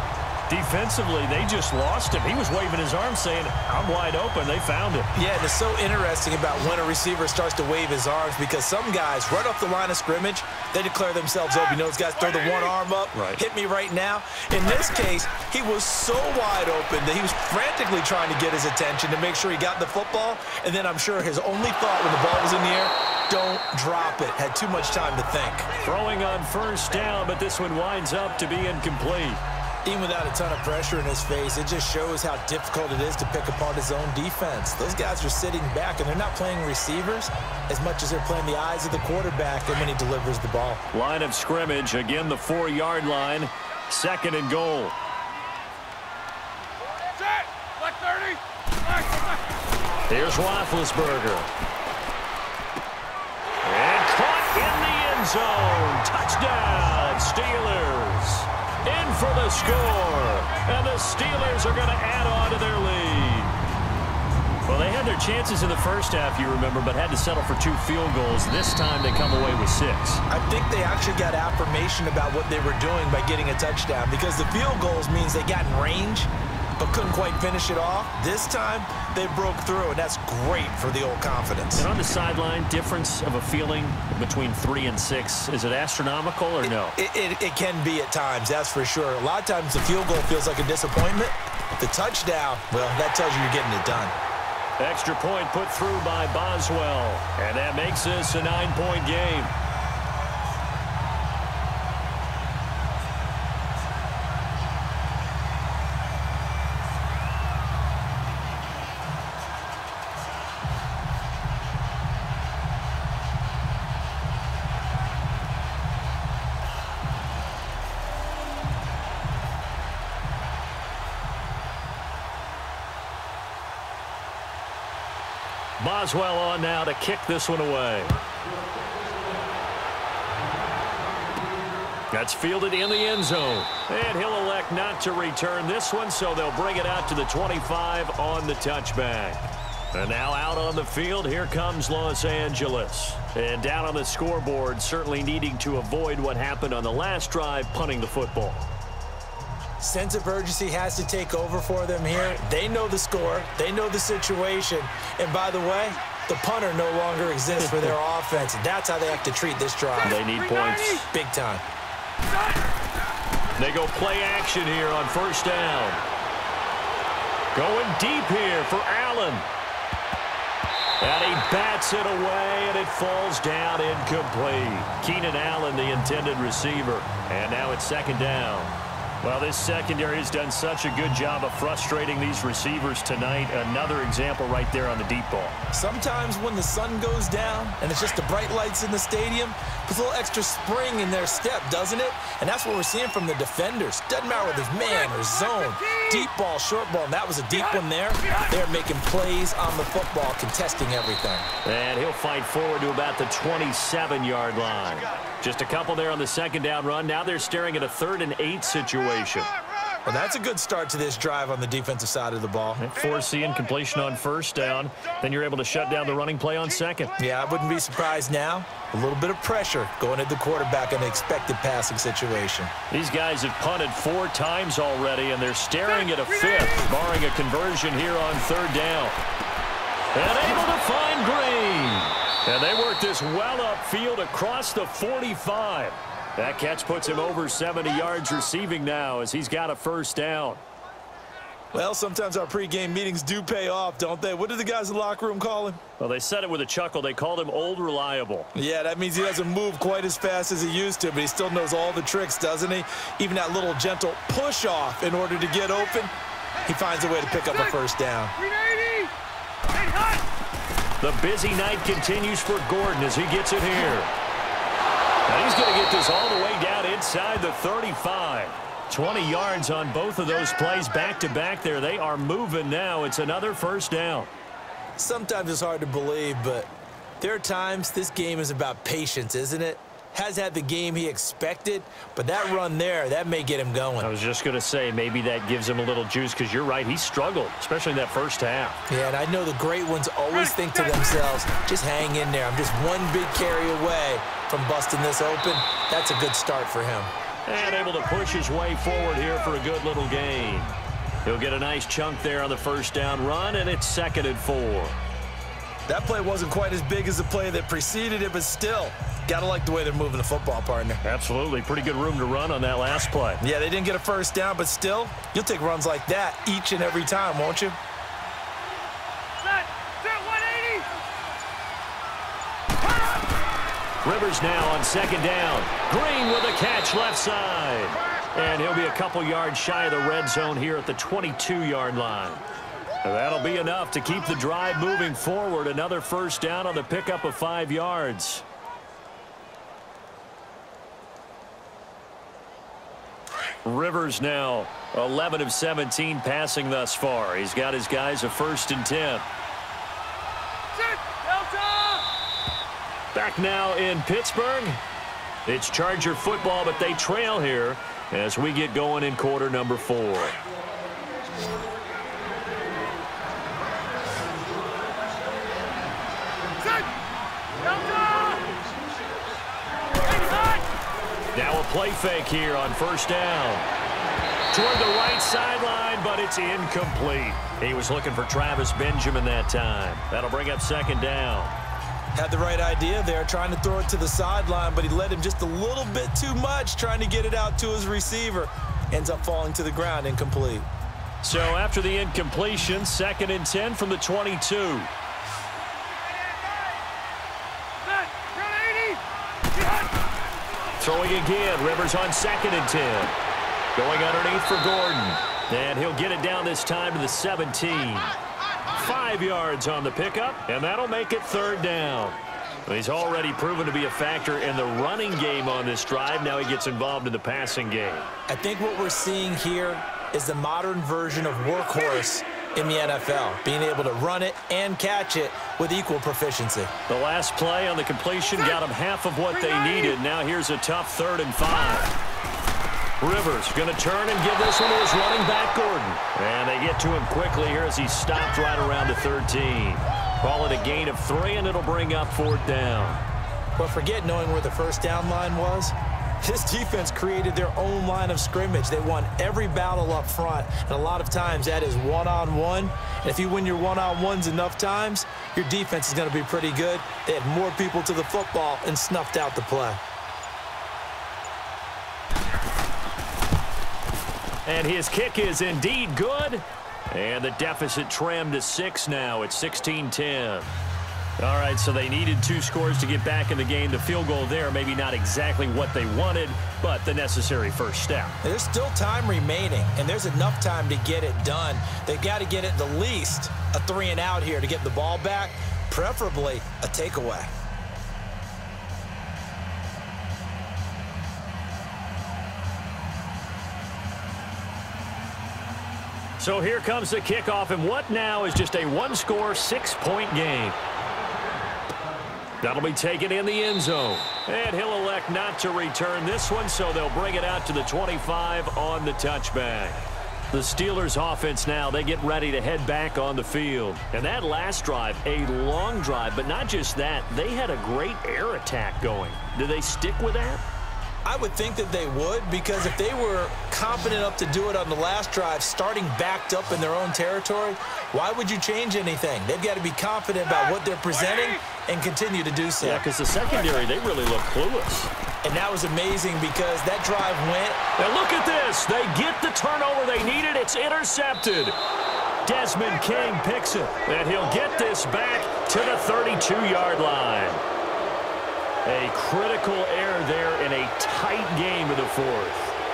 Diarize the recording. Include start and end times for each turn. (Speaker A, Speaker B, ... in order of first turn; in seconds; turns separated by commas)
Speaker A: 0.5-5.1, Speaker B: 5.1-25.7, Speaker C: 12.3-12.7, Speaker A: 13.1-13.4, Speaker A: 25.8-29.4, Speaker B: 29.8-40.8, Speaker A: 40.9-44.9, Speaker C: 47.1-49.4, Speaker A: 50.1-51.5, Speaker A: 53.6-63.5, Speaker C: 59.9-60.6, Speaker A: 64.7-70.2, Speaker B: 70.3-81.9, Speaker A: 81.8-87.0, Speaker B: 86.6-94.1, Speaker A: 94.8-99.5, Speaker A: 125.8-128.1, Speaker A: 132.1-148.6, Speaker B: 149.8-160.2, Speaker A: 157.5-157.9, Speaker A: 160.0-161.1, Speaker C: 160.2-161.1, Speaker B: 161.1-161.6, Speaker C: 162.2-162.6, Speaker A: 163.6-166.0, Speaker A: 167.5-169.5, Speaker A: 171.0-185.6, Speaker B: 185.7-201.5, Speaker C: 194.5-196.3, Speaker C: 197.5-198.6, Speaker A: 201.6-209.5, Speaker B: 210.0-212.9, Speaker A: 212.8-217.1, Speaker B: 217.2-222.7, Speaker A: 222.9-229.2, Speaker C: 225.9-226.9, Speaker A: 230.1-240.6, Speaker B: 241.7-245.8, Speaker A: 246.0-248.5, Speaker B: 248.5-256.1, Speaker B: 256.6-258.3, Speaker C: 257.3-257.8, Speaker C: 258.4-259.1, Speaker C: 259.7-260.2, Speaker A: 261.0-264.1, Speaker A: 265.3-274.3, Speaker B: 275.0-276.7, Speaker B: 277.2-284.1, Speaker A: 284.0-288.8, Speaker B: 288.9-297.1, Speaker C: 290.4-291.1, Speaker A: 297.5-300.7, Speaker A: 301.2-304.9, Speaker B: 305.9-311.0, Speaker A: 311.0-313.4, Speaker B: 313.4-317.8, Speaker C: 319.4-320.9, Speaker A: 324.0-332.4, Speaker A: 333.0-338.4, Speaker A: 343.6-349.3, Speaker C: 350.7-352.0, Speaker A: 353.1-354.8, Speaker A: 355.4-360.4, Speaker C: 366.6-366.9, Speaker C: 367.5-368.5, Speaker C: 370.0-370.6, Speaker A: 371.3-373.6, Speaker A: 374.5-381.5, Speaker B: 382.1-390.7, Speaker A: 391.2-394.9, Speaker C: 397.8-400.0, Speaker A: 400.8-403.1, Speaker A: 403.7-408.1, Speaker A: 408.7-418.1, Speaker B: 418.3-426.7, Speaker A: 426.9-431.9, Speaker C: 429.5-429.9, Speaker A: 433.0-443.0, Speaker B: 443.6-459.8, Speaker A: 464.4-470.5, Speaker A: 471.2-478.2, Speaker B: 478.2-487.3, Speaker A: 496.2-500.6, Speaker A: 502.4-509.8, Speaker A: 510.3-520.4, Speaker B: 521.0-532.9, Speaker C: 530.9-531.4, Speaker A: 532.6-534.9, Speaker B: 535.2-537.6, Speaker A: 537.8-541.5, Speaker A: 542.2-547.4, Speaker A: 548.6-552.5